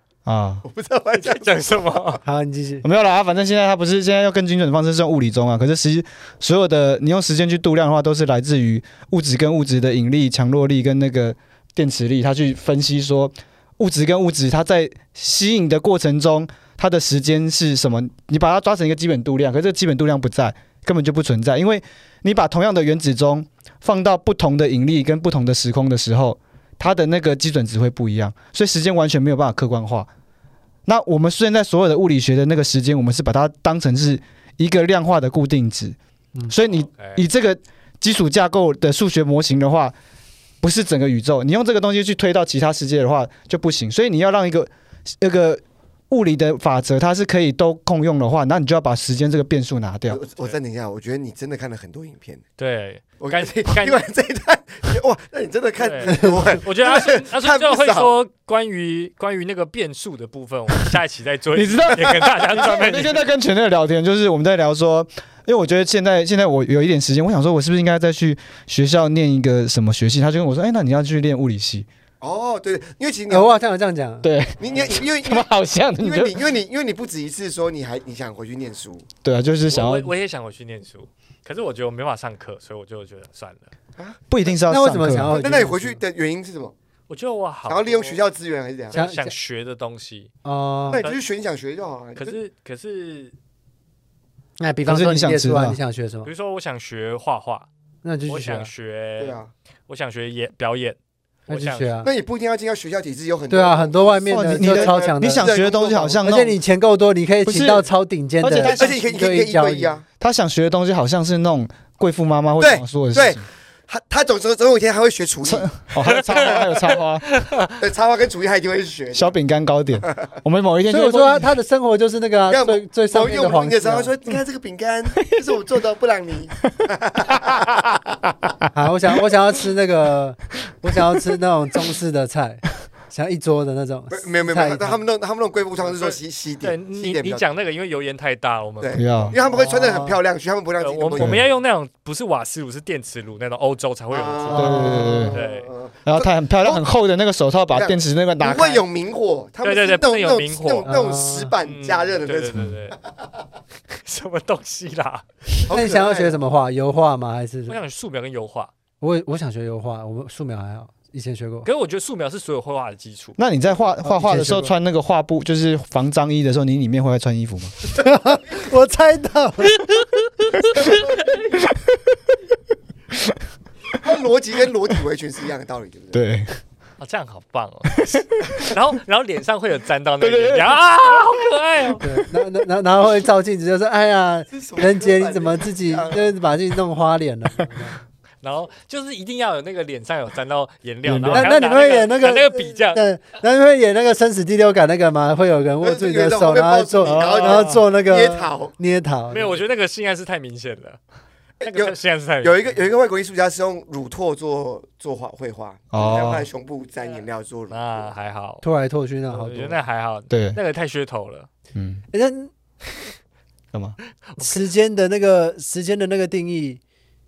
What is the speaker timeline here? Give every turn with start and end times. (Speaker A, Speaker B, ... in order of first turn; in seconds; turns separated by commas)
Speaker A: 0.3-0.6, Speaker B: 0.6-2.2, Speaker C: 1.1-2.2, Speaker D: 2.2-2.8, Speaker A: 2.8-30.1, Speaker A: 30.9-36.0, Speaker A: 36.5-39.9, Speaker C: 36.7-37.2, Speaker A: 40.6-44.7, Speaker A: 45.2-50.2, Speaker B: 50.1-52.4, Speaker C: 52.6-54.0, Speaker B: 53.2-58.1, Speaker C: 55.8-63.2, Speaker A: 61.5-71.9, Speaker B: 62.0-62.6, Speaker B: 72.2-73.5, Speaker D: 73.3-74.3, Speaker A: 74.2-76.5, Speaker B: 74.6-79.1, Speaker A: 79.2-80.1, Speaker C: 79.7-83.7, Speaker A: 84.3-85.4, Speaker D: 84.7-86.0, Speaker B: 85.3-86.7, Speaker C: 87.1-88.2, Speaker B: 87.7-89.0, Speaker C: 88.9-90.3, Speaker D: 88.9-89.3, Speaker D: 90.4-91.0, Speaker B: 90.9-92.4, Speaker C: 92.2-93.3, Speaker D: 94.6-96.3, Speaker A: 94.9-95.8, Speaker C: 96.2-97.7, Speaker D: 98.0-98.7, Speaker C: 98.3-101.0, Speaker B: 99.2-99.5, Speaker C: 101.5-102.0, Speaker D: 101.5-102.1, Speaker B: 102.0-106.3, Speaker D: 103.5-105.5, Speaker A: 104.3-106.5, Speaker D: 106.2-110.0, Speaker A: 107.5-107.9, Speaker A: 108.4-108.9, Speaker B: 108.7-110.0, Speaker A: 110.2-113.4, Speaker B: 112.6-116.7, Speaker A: 115.4-117.3, Speaker C: 116.2-117.7, Speaker B: 117.8-119.3, Speaker A: 119.1-121.5, Speaker B: 120.0-120.3, Speaker D: 120.9-124.1, Speaker B: 122.5-128.0, Speaker D: 128.7-135.0, Speaker B: 134.1-137.4, Speaker C: 135.8-139.4, Speaker B: 138.8-141.5, Speaker A: 138.9-139.4, Speaker D: 139.5-140.2, Speaker C: 140.8-145.7, Speaker A: 141.2-141.4, Speaker B: 144.1-146.8, Speaker A: 144.5-145.4, Speaker D: 144.6-145.2, Speaker A: 146.1-148.8, Speaker B: 147.7-152.7, Speaker C: 149.6-150.9, Speaker D: 150.9-151.5, Speaker C: 151.6-153.0, Speaker C: 153.9-155.3, Speaker B: 155.6-156.4, Speaker D: 155.7-157.8, Speaker C: 157.7-158.7, Speaker D: 159.0-161.7, Speaker C: 161.7-163.4, Speaker A: 163.4-167.7, Speaker D: 164.0-164.7, Speaker D: 168.0-169.8, Speaker C: 170.8-171.4, Speaker A: 173.1-173.4, Speaker B: 173.9-176.2, Speaker A: 176.1-176.6, Speaker C: 177.0-182.0, Speaker A: 178.0-178.7, Speaker A: 180.2-180.8, Speaker D: 182.0-188.0, Speaker B: 184.5-186.3, Speaker C: 188.4-193.0, Speaker A: 191.1-191.5, Speaker D: 191.3-199.6, Speaker B: 195.8-198.7, Speaker A: 197.0-197.7, Speaker C: 199.3-201.0, Speaker B: 201.6-208.1, Speaker C: 201.6-202.8, Speaker A: 205.9-206.5, Speaker C: 207.7-208.6, Speaker D: 208.6-209.8, Speaker C: 209.3-211.5, Speaker A: 210.3-210.6, Speaker A: 211.8-212.0, Speaker D: 212.1-212.5, Speaker D: 214.4-216.8